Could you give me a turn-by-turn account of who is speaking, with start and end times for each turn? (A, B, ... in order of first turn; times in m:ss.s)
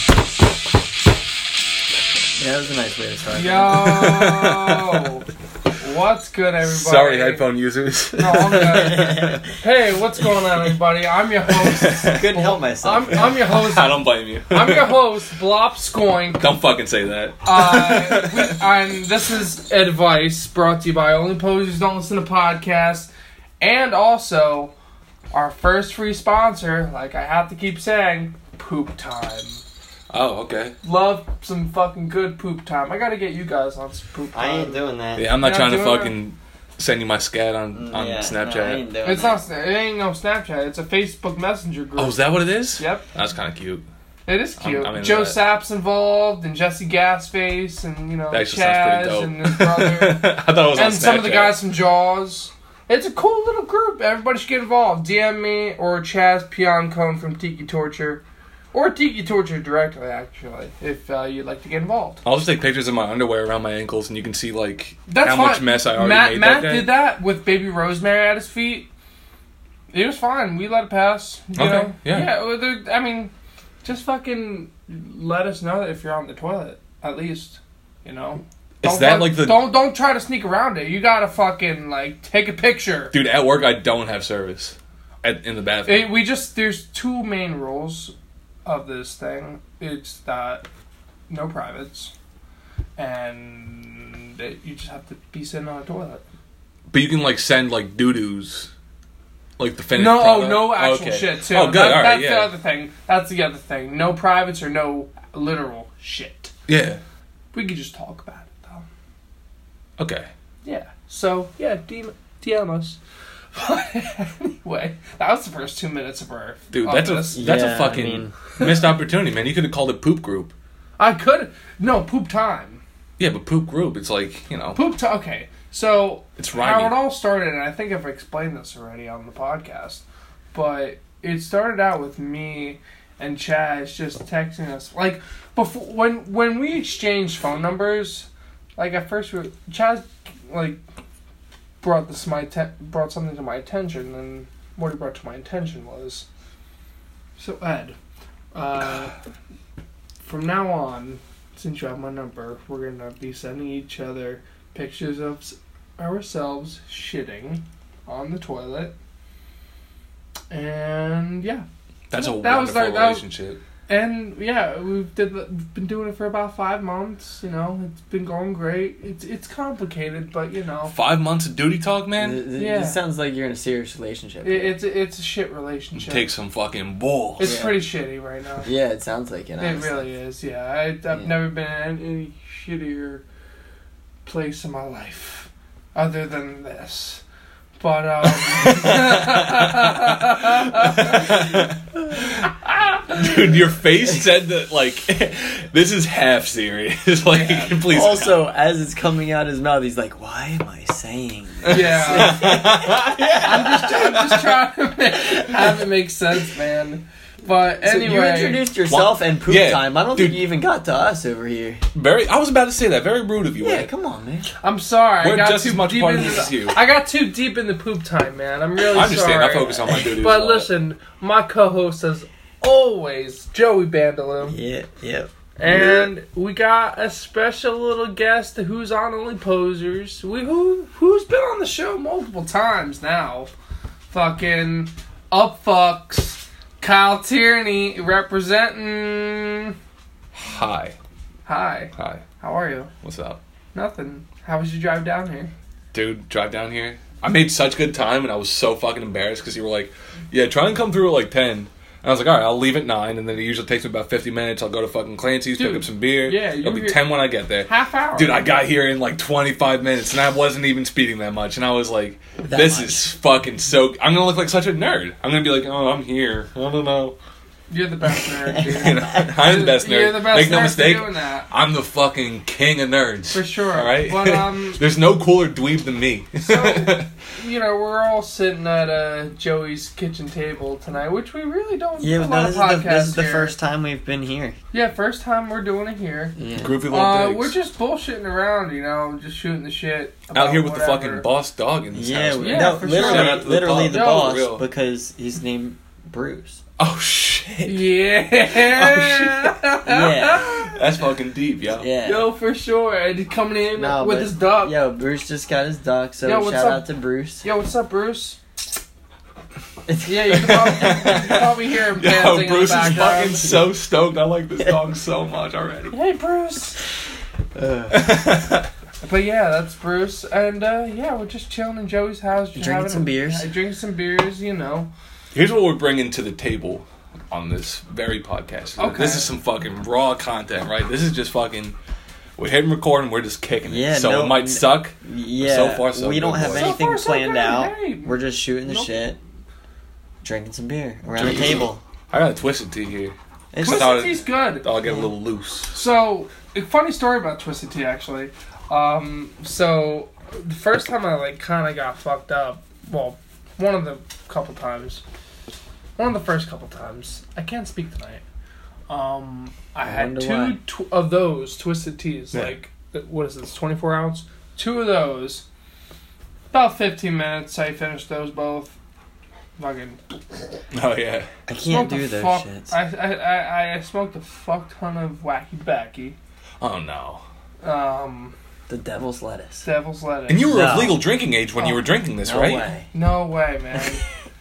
0:02.4-0:04.0 A
0:03.3-0:05.2 B
0:03.7-0:05.0 C
0:05.8-0:07.4 B
0:06.6-0:09.4 C
0:08.2-0:16.4 B
0:08.8-0:09.4 A
0:11.5-0:12.3 C
0:12.1-0:13.4 A
0:13.1-0:15.0 C
0:16.4-0:18.6 C
0:17.4-0:24.7 B
0:25.3-0:29.6 B
0:30.1-0:30.8 C
0:30.8-0:34.8 B
0:34.3-0:35.3 A
0:35.2-0:38.8 C
0:35.4-0:36.1 B
0:37.7-0:39.4 A
0:39.0-0:42.2 B
0:42.0-0:43.8 C
0:42.8-0:43.0 B
0:44.3-1:02.2 B
0:44.6-0:45.4 C
0:48.3-0:51.6 C
1:02.2-1:06.9 C
1:05.1-1:08.9 B
1:09.9-1:13.3 B
1:11.6-1:12.3 C
1:13.8-1:23.1 B
1:18.8-1:19.7 C
1:23.1-1:26.1 C
1:25.8-1:28.1 B
1:28.6-1:30.6 B
1:31.3-1:32.1 B
1:33.0-1:36.2 B
1:36.9-1:38.7 C
1:39.6-1:42.5 C
1:39.9-1:46.5 B
1:46.7-1:47.0 C
1:47.5-1:48.8 B
1:50.0-1:50.3 C
1:50.6-1:53.0 B
1:53.5-1:58.0 B
1:56.7-2:00.5 C
1:57.3-1:58.3 A
1:58.6-1:58.9 B
2:01.0-2:02.8 B
2:03.2-2:04.8 C
2:04.7-2:20.8 B
2:06.4-2:07.0 C
2:21.8-2:26.2 B
2:27.4-2:28.0 B
2:28.5-2:29.1 B
2:30.2-2:38.9 B
2:40.5-2:43.2 B
2:42.1-2:43.6 C
2:43.9-2:50.9 B
2:50.9-2:52.4 C
2:52.2-2:54.8 A
2:52.6-2:53.0 B
2:54.4-2:56.3 B
2:55.9-2:57.5 C
2:57.4-2:58.7 B
2:57.4-2:57.8 A
2:58.6-3:00.0 A
2:59.6-3:03.2 B
3:04.2-3:07.2 B
3:07.8-3:11.7 B
3:08.4-3:12.5 C
3:12.6-3:13.4 B
3:13.1-3:18.4 C
3:17.3-3:17.8 B
3:17.8-3:24.3 A
3:21.6-3:24.3 C
3:21.7-3:22.8 B
3:23.4-3:28.6 B
3:27.8-3:31.8 A
3:28.9-3:30.4 C
3:31.9-3:33.9 C
3:33.6-3:34.5 A
3:34.6-3:44.6 B
3:35.2-3:36.8 C
3:38.9-3:40.7 C
3:44.4-3:45.8 A
3:45.6-3:53.5 B
3:45.7-3:46.0 C
3:54.1-3:59.7 B
4:00.3-4:01.0 C
4:01.4-4:02.9 B
4:02.0-4:02.2 C
4:03.0-4:03.4 C
4:03.7-4:05.5 B
4:05.9-4:27.2 C
4:15.6-4:17.0 B
4:17.6-4:18.5 B
4:22.4-4:23.0 A
4:27.7-4:31.5 B
4:28.5-4:29.2 A
4:28.6-4:37.1 C
4:33.3-4:34.8 B
4:36.4-4:43.5 B
4:42.0-4:44.6 A
4:44.7-4:46.4 B
4:46.4-4:46.8 A
4:46.5-4:47.5 C
4:46.9-4:51.2 B
4:50.3-4:54.6 C
4:51.9-4:56.6 A
4:52.4-4:54.4 B
4:56.8-4:57.9 C
4:57.6-5:00.8 B
4:58.5-4:59.6 C
4:59.8-5:00.6 A
5:00.6-5:01.8 C
5:01.8-5:02.3 A
5:02.0-5:04.8 B
5:03.8-5:07.4 A
5:06.2-5:06.9 B
5:07.4-5:08.4 B
5:09.9-5:11.4 A
5:10.0-5:13.5 B
5:10.3-5:15.9 C
5:15.9-5:16.8 B
5:17.5-5:18.1 A
5:17.9-5:18.7 C
5:19.0-5:24.9 B
5:22.5-5:23.5 A
5:25.3-5:31.7 C
5:28.8-5:29.3 B
5:32.4-5:36.7 C
5:33.6-5:39.2 A
5:36.5-5:39.0 B
5:40.2-5:41.8 A
5:41.2-5:45.7 C
5:43.5-5:44.0 A
5:43.6-5:44.7 B
5:45.7-5:55.0 B
5:56.0-5:58.2 B
5:58.9-6:05.4 B
5:59.8-6:00.6 A
6:06.5-6:08.7 B
6:09.6-6:10.0 B
6:10.7-6:11.3 C
6:11.5-6:12.7 A
6:11.7-6:16.2 B
6:16.6-6:17.2 C
6:17.6-6:18.3 B
6:18.7-6:19.6 A
6:19.6-6:20.7 B
6:20.3-6:22.7 C
6:20.4-6:21.0 A
6:22.2-6:22.9 A
6:22.9-6:24.0 B